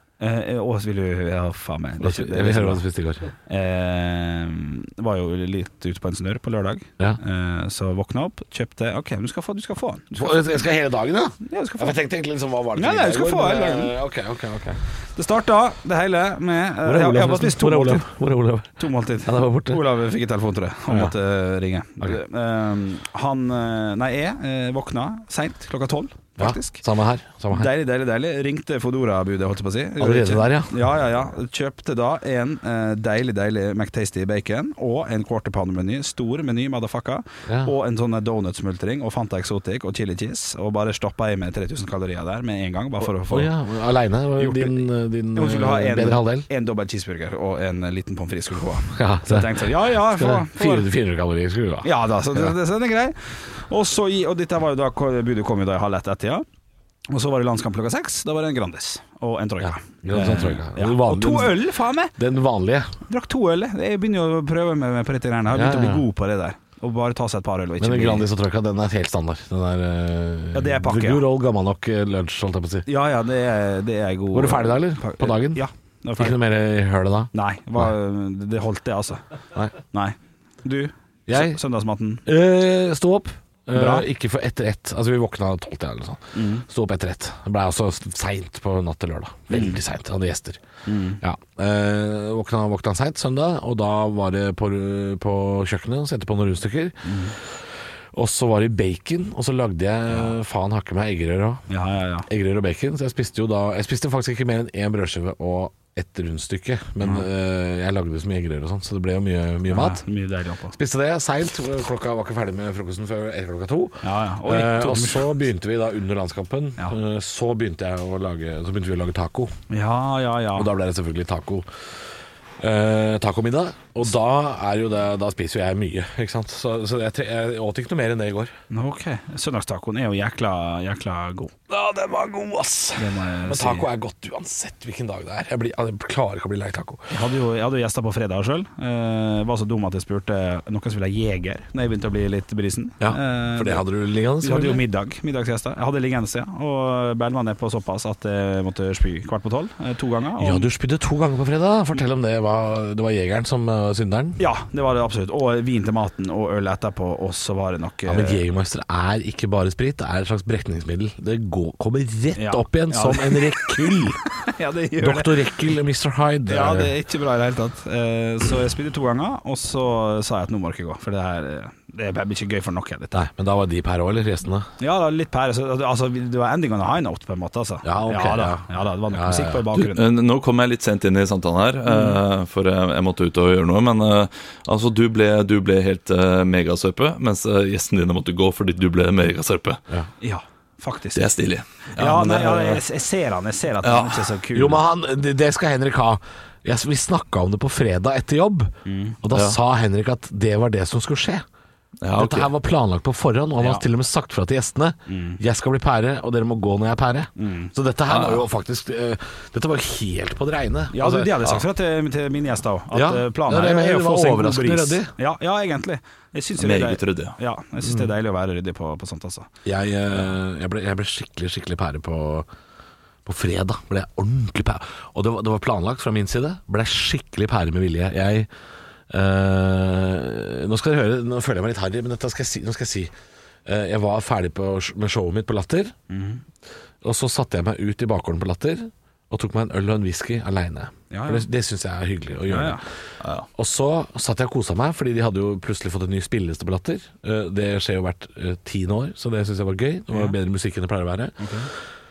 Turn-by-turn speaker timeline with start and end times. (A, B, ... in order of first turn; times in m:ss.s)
0:00.2-0:02.8 A
0:02.0-0:03.3 B
0:03.5-0:10.5 A
0:10.2-0:14.8 B
0:11.4-0:12.0 A
0:12.8-0:13.9 A
0:15.2-0:18.1 A
0:16.8-0:19.8 B
0:18.8-0:26.8 A
0:20.9-0:21.1 B
0:26.4-0:27.7 B
0:27.5-0:43.5 A
0:30.0-0:30.8 B
0:37.5-0:37.7 B
0:43.0-0:46.5 B
0:44.4-0:50.9 A
0:48.9-0:52.5 B
0:51.8-0:56.4 A
0:57.1-1:02.2 A
0:59.6-1:01.6 B
1:02.2-1:02.9 B
1:03.1-1:08.3 A
1:05.5-1:06.0 B
1:07.8-1:12.9 B
1:10.5-1:11.3 A
1:12.9-1:16.4 A
1:14.3-1:15.6 B
1:16.2-1:17.9 B
1:17.3-1:19.2 A
1:19.9-1:22.2 A
1:21.3-1:21.6 B
1:22.3-1:30.6 B
1:23.7-1:24.1 A
1:26.4-1:26.6 A
1:29.5-1:29.8 A
1:30.9-1:31.2 A
1:31.2-1:37.5 B
1:37.0-1:37.4 A
1:38.1-1:41.6 B
1:41.7-1:42.3 A
1:42.3-1:50.0 B
1:49.7-1:50.8 A
1:50.7-1:59.5 B
1:54.0-1:55.3 A
1:59.7-2:00.7 A
2:00.6-2:01.7 B
2:02.6-2:08.5 B
2:08.7-2:11.5 A
2:11.7-2:17.1 B
2:13.0-2:13.9 A
2:17.1-2:23.8 A
2:23.0-2:24.8 B
2:24.4-2:30.7 A
2:30.4-2:34.4 B
2:34.4-2:38.4 A
2:38.1-2:44.2 B
2:42.4-2:45.4 A
2:45.0-2:46.9 B
2:46.5-2:53.3 A
2:53.1-2:54.7 B
2:54.8-3:00.0 A
2:57.8-2:59.6 B
2:59.7-3:09.8 C
3:01.9-3:02.2 A
3:10.2-3:11.3 A
3:11.2-3:11.7 C
3:11.9-3:14.8 A
3:12.0-3:12.8 B
3:13.8-3:14.3 C
3:14.5-3:21.4 B
3:18.8-3:19.2 A
3:19.3-3:19.6 C
3:22.0-3:22.5 C
3:22.2-3:31.4 B
3:23.6-3:23.8 A
3:25.1-3:25.4 A
3:27.4-3:27.7 A
3:28.1-3:28.4 C
3:30.9-3:39.5 A
3:32.9-3:35.1 B
3:36.6-3:37.4 C
3:37.8-3:38.1 B
3:39.6-3:42.5 B
3:43.2-3:48.5 B
3:49.1-3:53.1 B
3:53.7-3:56.0 B
3:56.1-3:56.4 A
3:57.0-4:02.8 B
4:01.1-4:01.5 A
4:02.5-4:02.8 A
4:03.6-4:11.5 B
4:11.4-4:11.7 A